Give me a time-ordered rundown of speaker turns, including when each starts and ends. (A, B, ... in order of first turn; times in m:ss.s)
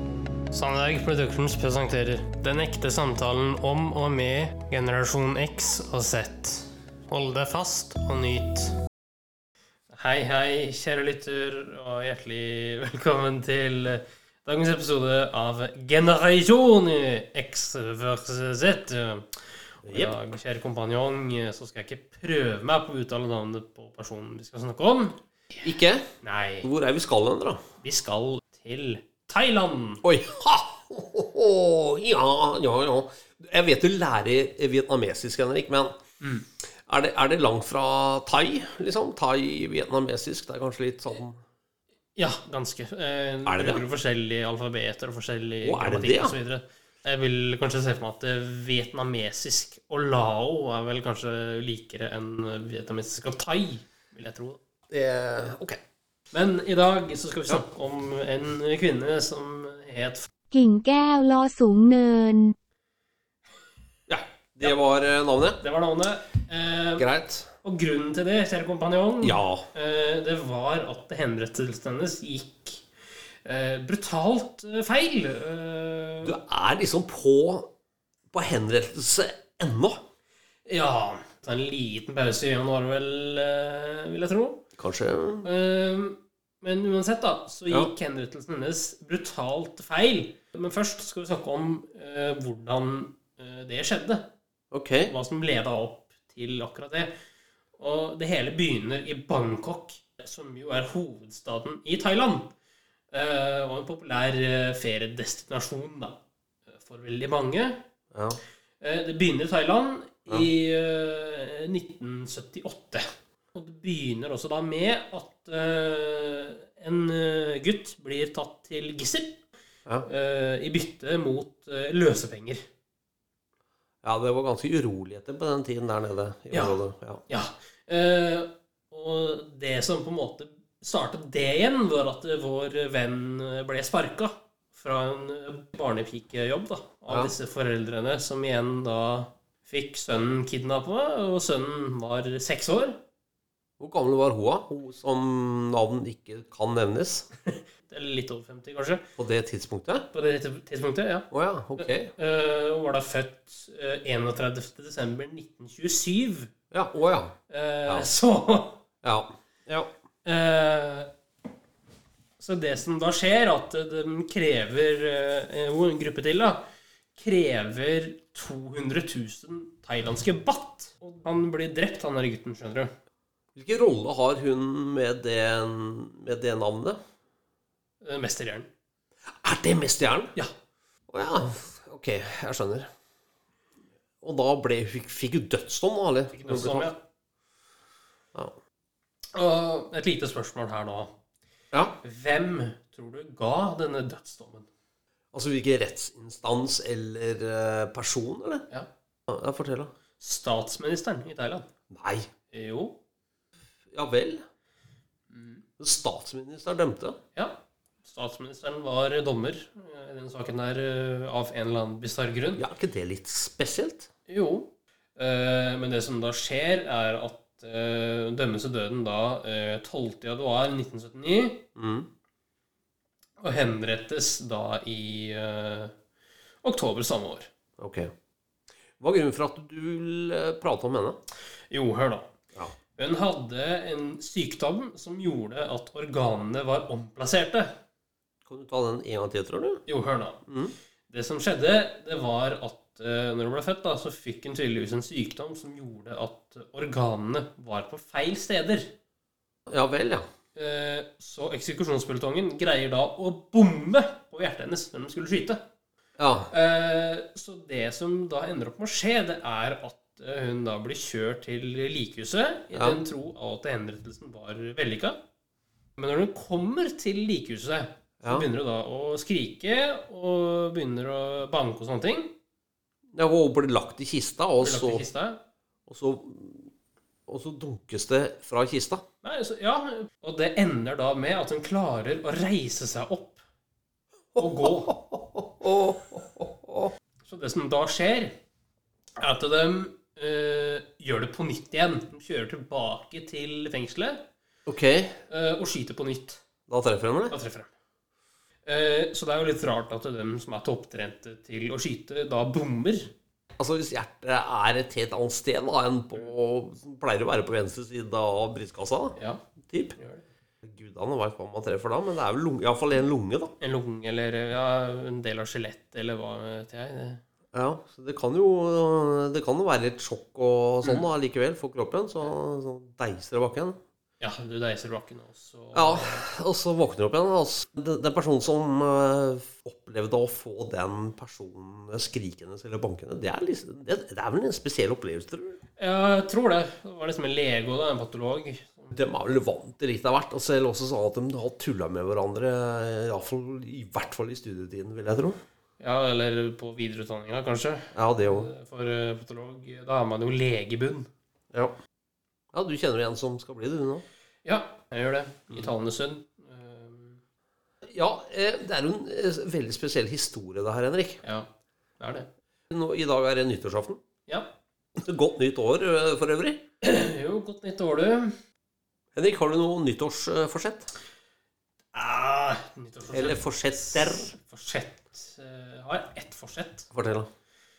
0:00.5-0:08.8 A
0:09.9-0:19.3 A
0:19.8-0:25.2 A
0:19.8-0:20.2 B
0:25.6-0:26.1 B
0:26.2-0:26.7 A
0:26.6-0:27.6 B
0:27.8-0:30.0 A
0:30.0-0:36.0 B
0:36.6-0:41.4 B
0:42.2-0:54.6 A
0:43.4-0:43.8 B
0:45.6-0:46.4 B
0:54.9-0:55.8 B
0:56.3-1:00.3 A
1:00.5-1:02.5 C
1:04.1-1:05.6 B
1:05.6-1:07.1 A
1:07.0-1:07.5 B
1:07.6-1:12.8 A
1:09.2-1:09.7 B
1:13.4-1:16.4 A
1:16.2-1:17.7 B
1:18.3-1:20.0 B
1:20.6-1:24.7 A
1:24.8-1:25.5 B
1:25.4-1:34.3 A
1:34.7-1:35.1 B
1:35.0-1:37.1 A
1:37.8-1:42.5 A
1:43.1-1:46.2 A
1:46.7-1:47.8 A
1:48.1-1:48.4 B
1:48.8-1:59.4 A
2:00.0-2:02.6 A
2:04.0-2:07.2 B
2:06.5-2:23.0 A
2:17.1-2:17.3 B
2:23.8-2:27.3 B
2:27.5-2:29.0 A
2:29.2-2:30.0 B
2:30.1-2:36.5 A
2:31.3-2:32.1 B
2:36.7-2:37.3 B
2:37.5-2:38.8 A
2:39.0-2:39.9 B
2:40.2-2:41.1 A
2:42.4-2:46.6 A
2:47.1-2:52.9 A
2:53.5-2:57.0 B
2:58.0-2:58.7 A
2:59.4-3:00.3 B
3:01.1-3:02.9 B
3:04.2-3:06.9 B
3:06.3-3:07.0 A
3:09.3-3:11.1 A
3:11.7-3:12.0 B
3:12.0-3:14.7 A
3:15.3-3:18.6 B
3:19.3-3:19.9 B
3:20.2-3:21.7 A
3:21.9-3:22.3 B
3:22.5-3:23.0 A
3:23.9-3:24.4 B
3:25.3-3:25.6 A
3:25.8-3:27.2 B
3:27.3-3:32.6 A
3:32.6-3:34.1 B
3:34.3-3:41.6 A
3:41.8-3:42.1 B
3:43.4-3:45.9 A
3:46.6-3:47.5 A
3:47.8-3:48.1 B
3:49.0-3:51.2 B
3:51.7-3:52.3 A
3:52.9-3:57.7 A
3:58.4-3:59.8 B
3:59.9-4:00.4 A
4:00.5-4:00.7 B
4:01.1-4:08.9 A
4:09.7-4:10.3 B
4:10.5-4:15.6 A
4:16.2-4:16.5 B
4:16.5-4:25.2 A
4:22.7-4:23.0 B
4:26.0-4:32.3 A
4:33.1-4:35.0 B
4:34.6-4:35.4 A
4:35.9-4:36.7 B
4:37.3-4:39.0 B
4:39.2-4:43.4 A
4:44.3-4:46.9 B
4:44.4-4:44.9 A
4:47.3-4:48.4 A
4:49.2-4:54.3 A
4:54.6-4:55.2 B
4:55.3-4:56.4 A
4:56.7-4:57.4 B
4:57.3-4:57.7 A
4:58.6-5:03.1 A
5:03.6-5:09.2 B
5:09.1-5:09.4 A
5:09.7-5:09.9 B
5:09.9-5:10.2 A
5:10.6-5:13.5 B
5:13.6-5:17.2 A
5:17.5-5:23.8 B
5:24.2-5:26.2 A
5:25.7-5:35.6 B
5:35.8-5:39.0 A
5:38.9-5:45.4 B
5:45.8-5:51.1 A
5:47.9-5:48.5 B
5:52.5-5:54.0 B
5:54.4-5:57.2 A
5:57.8-6:01.2 B
6:01.2-6:01.5 A
6:02.0-6:02.3 A
6:02.7-6:04.0 B
6:04.3-6:04.5 A
6:05.0-6:06.6 B
6:06.8-6:08.3 A
6:09.1-6:10.9 B
6:11.9-6:16.9 A
6:13.1-6:14.3 B
6:16.9-6:17.3 B